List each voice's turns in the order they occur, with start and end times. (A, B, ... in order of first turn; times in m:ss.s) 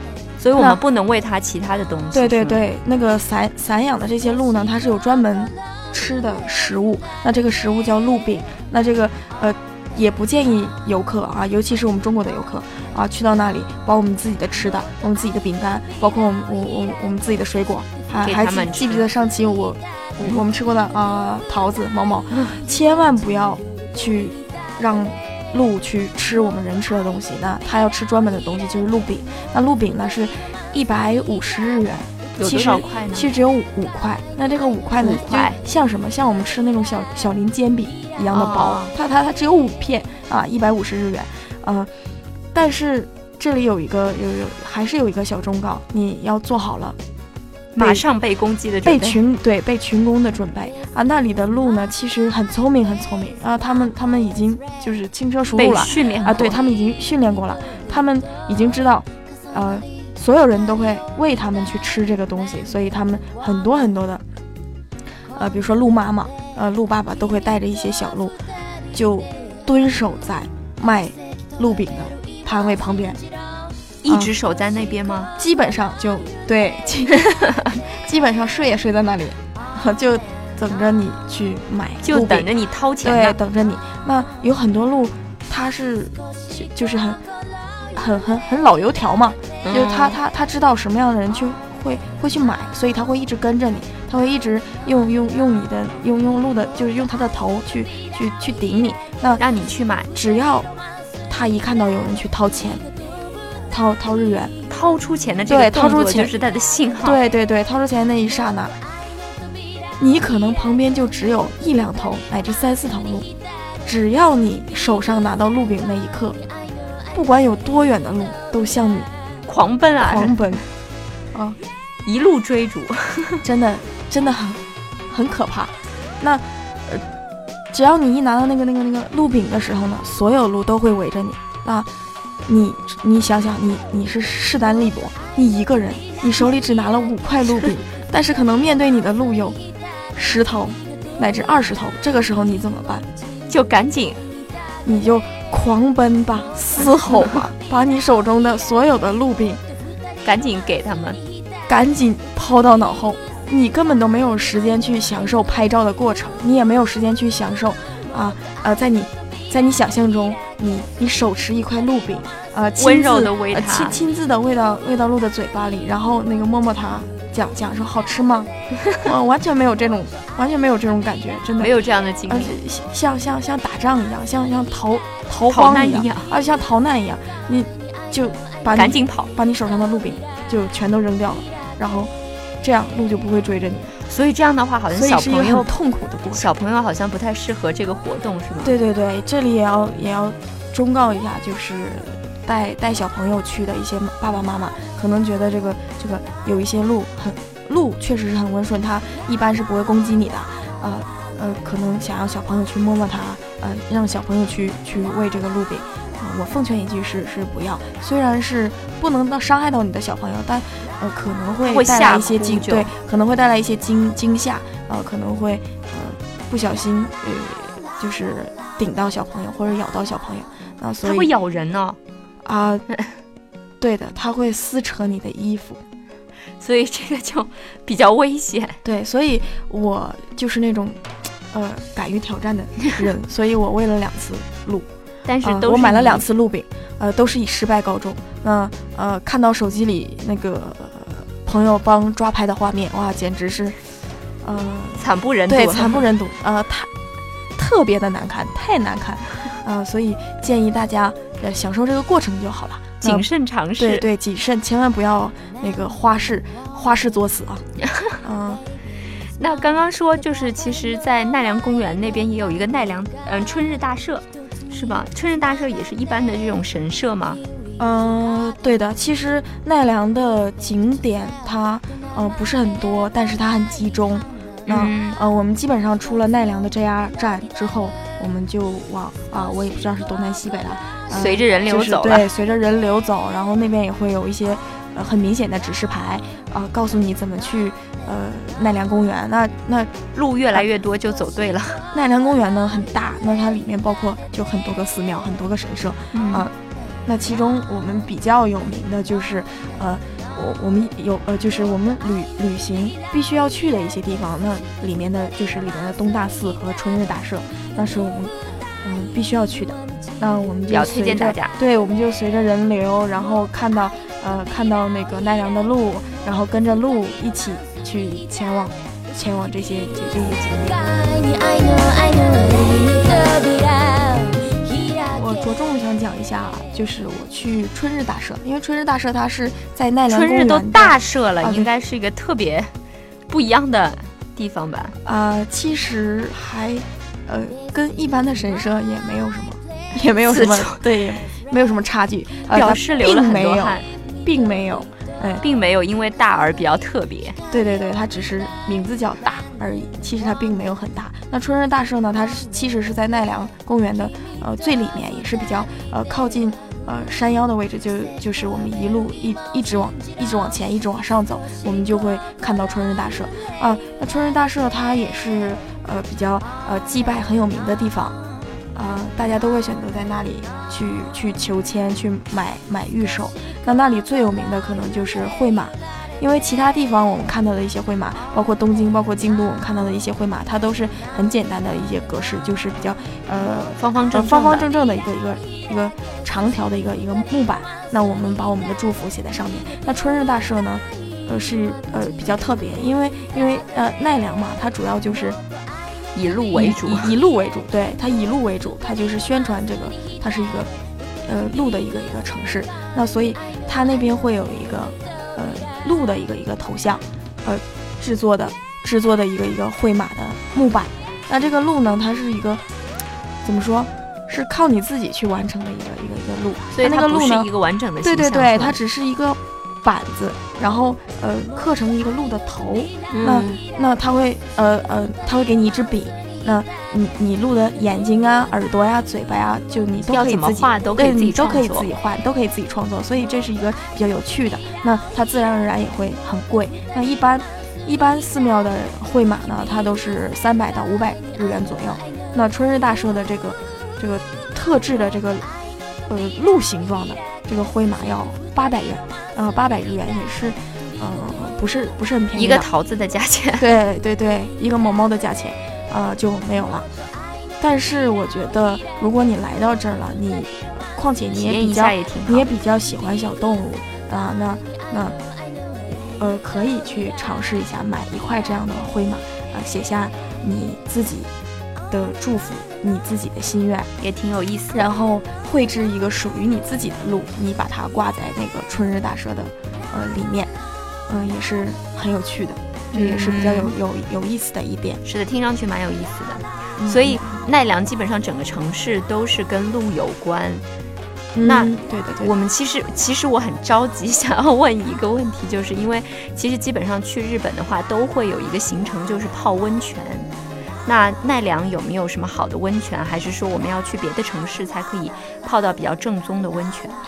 0:00.4-0:02.6 A
0:02.1-0:41.9 B
0:18.2-0:19.1 A
0:32.4-0:33.3 A
0:35.0-0:35.6 A
0:38.3-0:38.9 A
0:42.5-0:47.0 B
0:47.8-0:49.2 A
0:47.8-0:48.0 B
0:48.8-1:04.2 B
0:55.6-0:56.6 A
1:05.3-1:08.4 B
1:08.9-1:13.2 B
1:14.0-1:15.3 A
1:14.1-1:14.3 B
1:15.4-1:22.5 B
1:22.0-1:23.4 A
1:23.0-1:27.2 B
1:27.9-1:39.4 B
1:29.6-1:30.2 A
1:39.4-1:40.1 A
1:40.1-1:40.7 B
1:41.3-1:42.9 B
1:43.7-1:44.6 B
1:44.7-1:47.2 A
1:45.5-1:46.4 B
1:47.0-1:48.8 B
1:50.0-1:53.3 B
1:53.8-1:56.4 B
1:57.1-1:59.1 B
1:59.5-2:00.4 A
2:00.0-2:00.6 B
2:01.3-2:01.6 B
2:02.0-2:03.4 A
2:03.4-2:07.0 B
2:07.7-2:11.9 B
2:12.5-2:19.6 B
2:20.2-2:23.1 B
2:23.5-2:24.2 A
2:24.8-2:29.6 B
2:30.2-2:31.2 A
2:31.7-2:51.7 B
2:42.8-2:44.0 A
2:51.6-2:52.6 A
2:52.3-3:03.9 B
2:55.5-2:56.3 A
2:58.7-2:59.3 A
3:04.0-3:05.7 A
3:04.9-3:06.5 B
3:06.3-3:08.8 A
3:08.6-3:41.3 B
3:31.6-3:32.9 A
3:41.0-3:42.0 A
3:42.4-3:42.9 B
3:43.8-3:45.8 B
3:46.6-3:48.8 A
3:48.8-3:54.9 B
3:55.3-3:56.3 A
3:55.4-4:03.8 B
4:04.4-4:06.9 B
4:05.0-4:06.1 A
4:07.6-4:13.2 B
4:13.0-4:14.1 A
4:13.8-4:17.6 B
4:18.2-4:18.6 B
4:19.4-4:27.4 A
4:27.8-4:50.0 B
4:34.7-4:35.2 A
4:41.1-4:42.3 A
4:50.2-4:51.9 A
4:51.9-4:56.5 B
4:56.1-4:56.5 A
4:57.1-5:21.3 B
5:10.7-5:11.5 A
5:25.1-5:31.7 B
5:30.1-5:32.7 A
5:33.3-5:35.0 A
5:35.0-5:45.4 B
5:40.3-5:40.8 A
5:42.5-5:43.9 A
5:45.4-5:47.4 A
5:47.5-6:08.2 B
6:08.8-6:35.4 B
6:23.8-6:24.7 A
6:36.2-6:37.1 A
6:36.5-6:40.7 B
6:41.3-6:52.6 B
6:53.4-6:57.5 B
6:56.7-6:58.8 A
6:58.0-7:25.5 B
7:03.1-7:03.6 A
7:10.1-7:11.9 A
7:26.1-7:32.7 B
7:32.3-7:33.7 A
7:33.6-7:36.9 B
7:37.6-7:45.2 B
7:41.3-7:42.5 A
7:45.9-7:51.3 B
7:51.9-7:53.9 B
7:54.0-7:54.9 A
7:54.7-8:00.5 B
8:01.1-8:05.0 B
8:02.9-8:03.8 A
8:05.0-8:10.6 A
8:06.8-8:07.4 B
8:11.3-8:12.3 B
8:11.4-8:20.3 A
8:20.9-8:27.0 A